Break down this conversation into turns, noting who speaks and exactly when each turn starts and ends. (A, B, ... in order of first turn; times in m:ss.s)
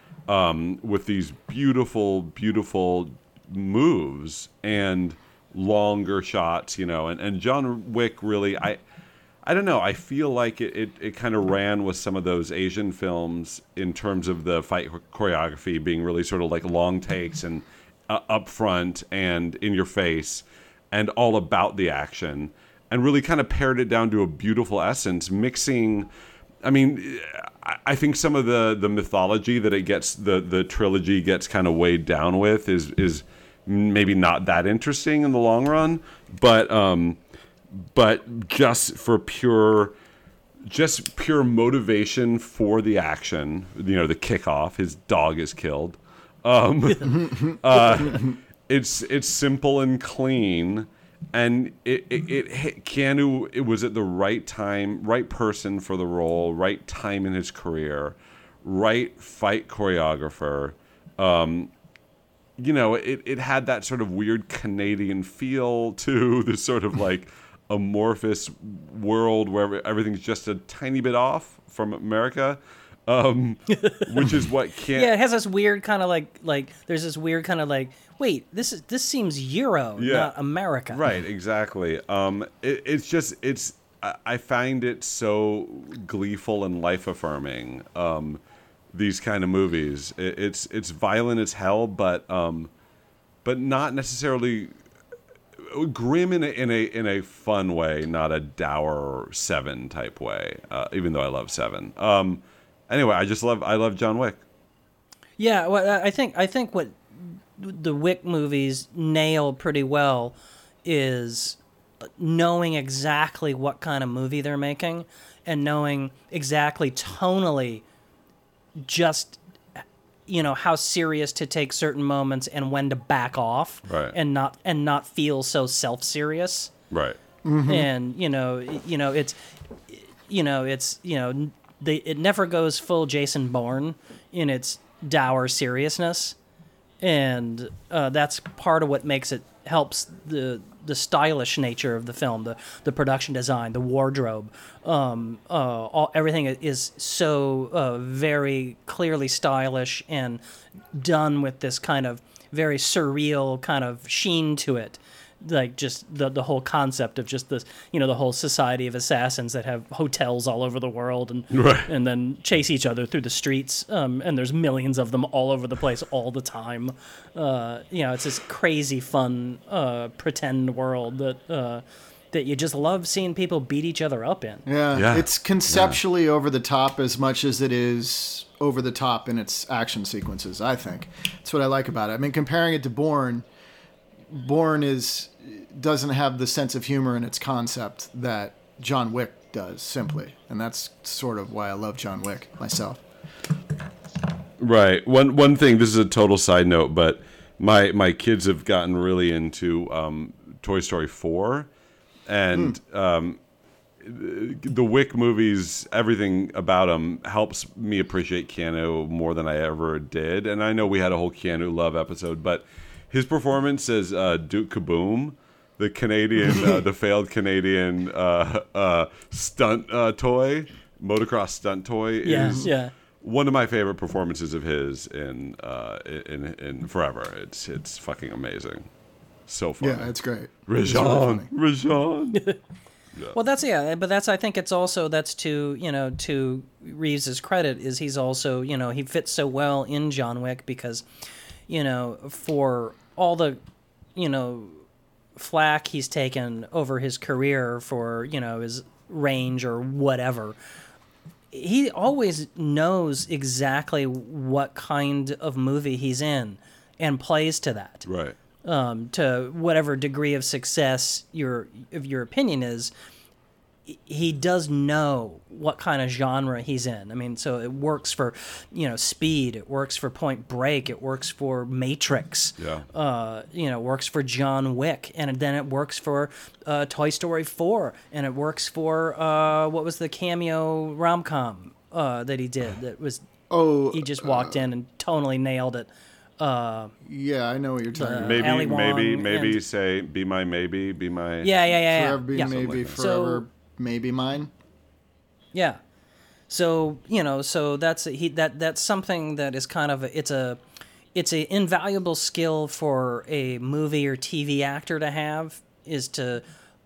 0:00.3-0:08.8 A
0:09.4-0:26.1 A
0:26.6-0:37.2 A
0:37.7-0:39.9 A
0:40.7-1:01.7 A
0:47.0-0:48.4 B
1:02.6-1:15.1 A
1:13.8-1:14.2 C
1:14.9-1:21.0 C
1:20.0-1:20.3 A
1:20.9-1:28.4 A
1:28.9-1:32.7 A
1:33.4-1:34.7 A
1:35.6-1:44.4 A
1:45.4-1:57.8 C
1:58.8-2:06.7 C
2:03.9-2:04.2 A
2:06.9-2:07.2 A
2:07.4-2:07.9 B
2:07.7-2:09.4 C
2:09.9-2:16.4 C
2:17.0-2:30.4 C
2:30.9-2:54.6 C
2:41.5-2:41.9 A
2:54.6-3:03.4 B
2:54.9-2:56.0 A
3:04.3-3:13.0 B
3:14.6-3:21.7 A
3:22.3-3:23.4 A
3:24.0-3:48.9 A
3:42.2-3:42.9 C
3:42.4-3:42.7 B
3:49.5-3:50.1 A
3:49.8-3:51.5 B
3:50.7-3:52.4 A
3:53.3-4:01.0 C
4:01.7-4:03.6 C
4:04.2-4:04.8 C
4:05.4-4:10.6 C
4:11.5-4:18.0 C
4:18.0-4:18.4 A
4:18.6-4:22.9 C
4:23.9-4:43.2 C
4:32.6-4:32.8 A
4:43.5-4:44.6 B
4:43.9-4:46.9 C
4:47.0-4:48.6 B
4:48.0-4:49.6 C
4:48.2-4:51.5 A
4:51.4-4:53.4 C
4:51.9-4:54.5 B
4:52.4-4:53.0 A
4:55.5-4:55.8 C
4:56.5-5:00.6 C
5:01.1-5:06.4 C